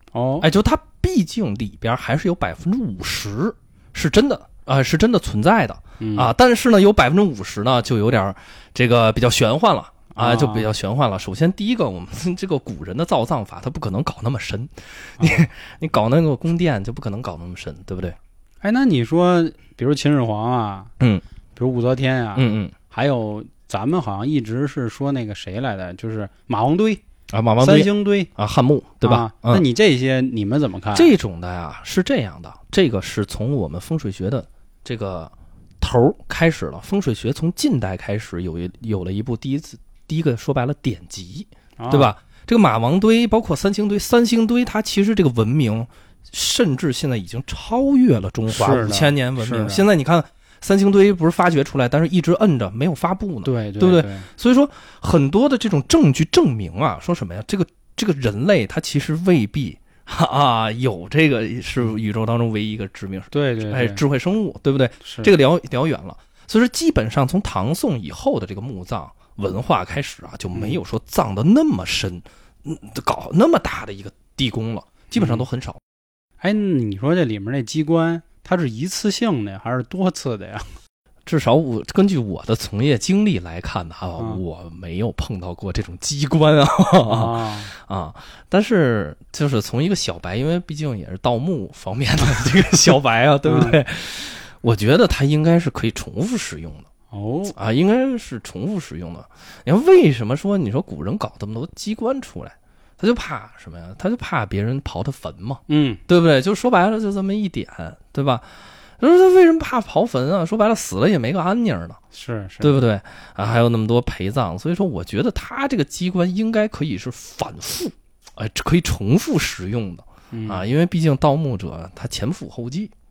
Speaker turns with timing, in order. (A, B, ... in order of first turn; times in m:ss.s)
0:00.1-0:00.5 A
0:00.4-0:18.2 B
0:06.0-0:06.3 A
0:10.1-0:10.7 A
0:15.2-0:15.4 A
0:18.6-0:20.9 A
0:21.6-0:27.0 A
0:22.4-0:22.7 B
0:27.3-0:29.6 B
0:27.6-0:28.3 A
0:29.0-0:31.1 A
0:30.9-1:15.8 B
0:41.8-0:42.1 A
0:48.5-0:49.8 A
0:53.4-0:54.3 A
1:03.3-1:04.0 A
1:05.0-1:05.3 A
1:10.5-1:10.8 A
1:15.1-1:15.4 A
1:16.4-1:20.8 A
1:21.2-1:36.9 B
1:27.0-1:27.7 A
1:33.4-1:33.8 A
1:37.1-1:37.5 A
1:37.5-1:48.5 B
1:45.7-1:46.0 A
1:49.0-1:52.0 B
1:52.1-1:52.7 A
1:52.6-2:02.9 B
2:00.3-2:00.6 A